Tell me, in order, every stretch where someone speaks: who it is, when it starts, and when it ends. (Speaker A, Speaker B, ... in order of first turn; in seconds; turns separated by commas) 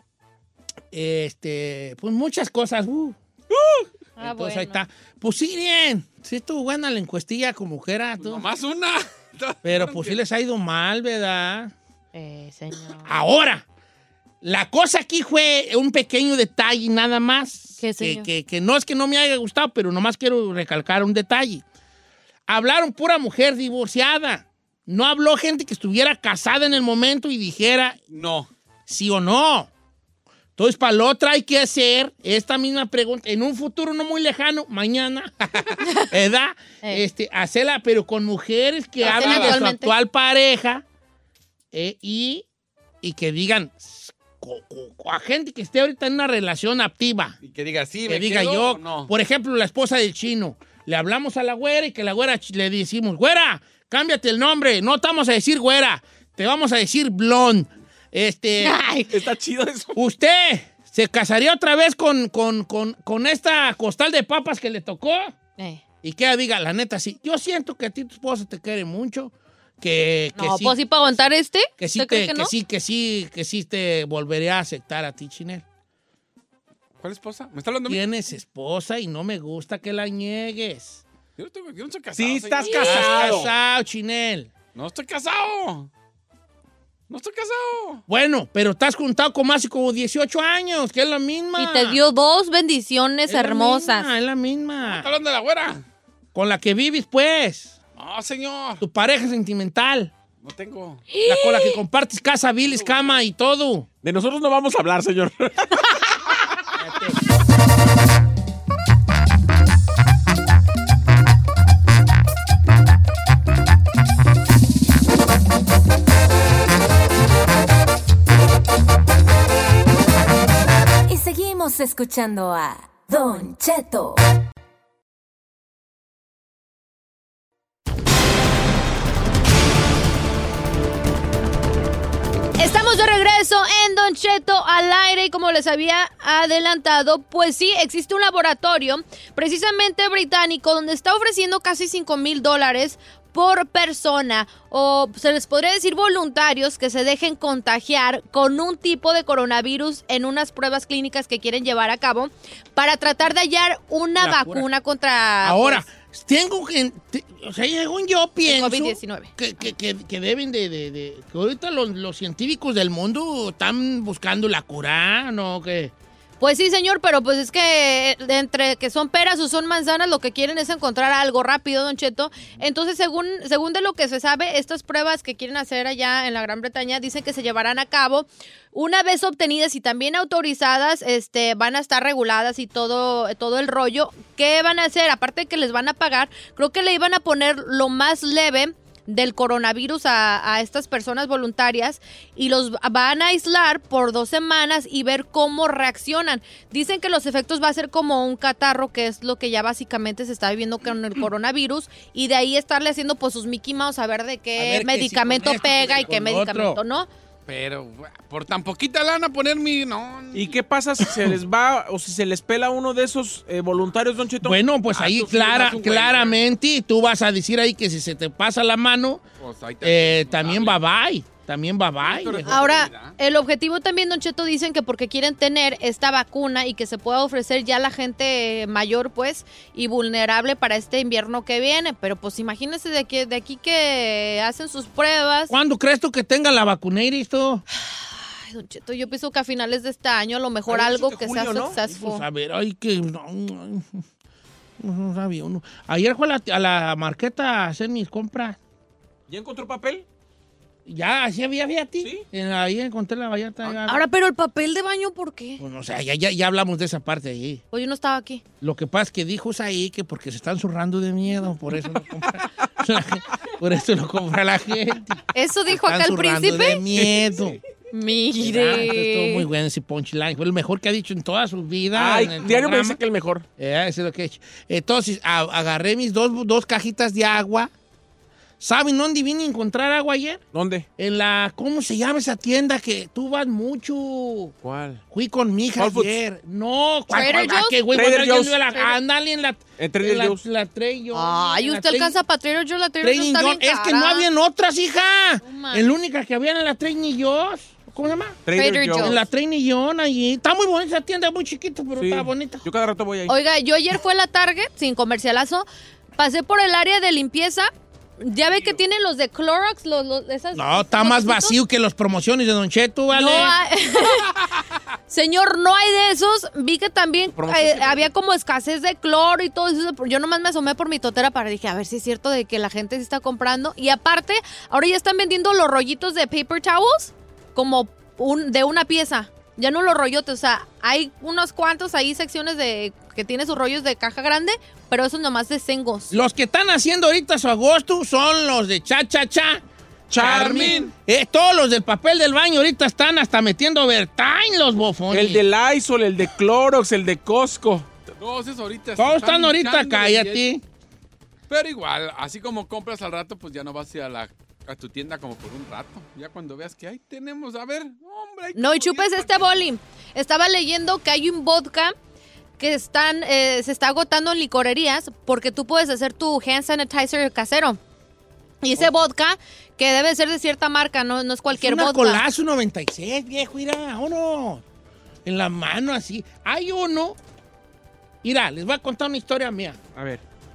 Speaker A: 0.9-3.2, Speaker B: 4.2-4.8, Speaker A: 4.2-8.5, Speaker C: 8.2-10.2, Speaker A: 9.6-11.7, Speaker B: 12.1-13.1, Speaker A: 13.0-13.7, Speaker A: 14.4-21.6, Speaker B: 17.8-18.3, Speaker A: 22.5-28.0, Speaker C: 28.1-28.5, Speaker A: 28.9-29.7, Speaker A: 30.6-40.8, Speaker C: 39.0-39.6, Speaker B: 39.0-39.9, Speaker A: 41.7-42.5, Speaker A: 43.0-47.4, Speaker C: 47.4-49.1, Speaker A: 48.1-58.8, Speaker B: 58.6-59.1, Speaker D: 59.1-60.0, Speaker A: 59.9-65.3, Speaker B: 65.6-65.8, Speaker A: 66.0-70.8, Speaker B: 70.3-72.5, Speaker A: 71.8-75.6, Speaker C: 77.0-78.0, Speaker A: 77.9-81.0, Speaker C: 81.4-83.4, Speaker D: 82.2-83.5, Speaker A: 82.7-84.5, Speaker C: 84.7-85.9, Speaker C: 87.1-88.0, Speaker A: 88.1-92.0, Speaker B: 91.6-94.1, Speaker A: 93.3-95.1, Speaker C: 94.8-95.8, Speaker A: 96.3-97.8, Speaker C: 98.0-98.8, Speaker A: 98.8-100.1, Speaker C: 100.4-101.0, Speaker B: 101.1-101.8, Speaker A: 101.2-103.9, Speaker C: 102.6-103.2, Speaker D: 104.0-105.8, Speaker A: 106.8-107.2, Speaker E: 121.1-124.2, Speaker B: 132.6-155.8, Speaker A: 154.2-154.7, Speaker A: 155.4-165.9, Speaker B: 158.4-159.3, Speaker B: 166.4-207.1, Speaker A: 204.6-206.8, Speaker C: 207.5-210.5, Speaker D: 210.3-214.6, Speaker A: 214.4-219.2, Speaker C: 214.9-216.4, Speaker C: 219.4-220.8, Speaker A: 219.8-222.7, Speaker C: 222.0-223.1, Speaker B: 222.5-235.5, Speaker A: 235.5-237.6, Speaker B: 237.7-242.2, Speaker D: 240.7-241.8, Speaker A: 241.8-244.0, Speaker A: 244.8-248.6, Speaker D: 249.3-250.0, Speaker A: 250.8-254.0, Speaker B: 253.9-255.6, Speaker A: 255.6-257.6, Speaker B: 257.7-258.4, Speaker A: 258.6-267.6, Speaker B: 265.3-266.8, Speaker B: 267.9-269.4, Speaker A: 268.4-273.0, Speaker D: 271.9-273.4, Speaker A: 273.6-277.7, Speaker A: 278.6-280.4, Speaker D: 280.5-280.9, Speaker A: 281.0-284.5, Speaker D: 284.6-285.0, Speaker A: 285.1-292.2, Speaker D: 285.8-286.1, Speaker B: 287.1-287.8, Speaker D: 287.9-288.6, Speaker D: 289.8-290.4, Speaker B: 291.1-294.3, Speaker A: 293.0-298.4, Speaker B: 295.4-295.8, Speaker D: 298.4-299.1, Speaker B: 298.5-299.2, Speaker A: 299.0-302.6, Speaker D: 301.9-303.3, Speaker B: 303.3-311.6, Speaker A: 310.5-313.5, Speaker B: 313.1-314.3, Speaker B: 315.1-336.1, Speaker D: 317.3-318.1, Speaker A: 336.1-345.4, Speaker D: 340.1-340.8, Speaker C: 340.5-340.9, Speaker D: 345.1-347.9, Speaker C: 348.2-350.4, Speaker A: 349.0-350.6, Speaker C: 351.5-359.5, Speaker B: 358.5-361.9, Speaker B: 362.6-367.8, Speaker B: 368.6-372.2, Speaker A: 371.5-374.6, Speaker A: 375.2-377.2, Speaker A: 378.2-379.8, Speaker D: 379.9-380.2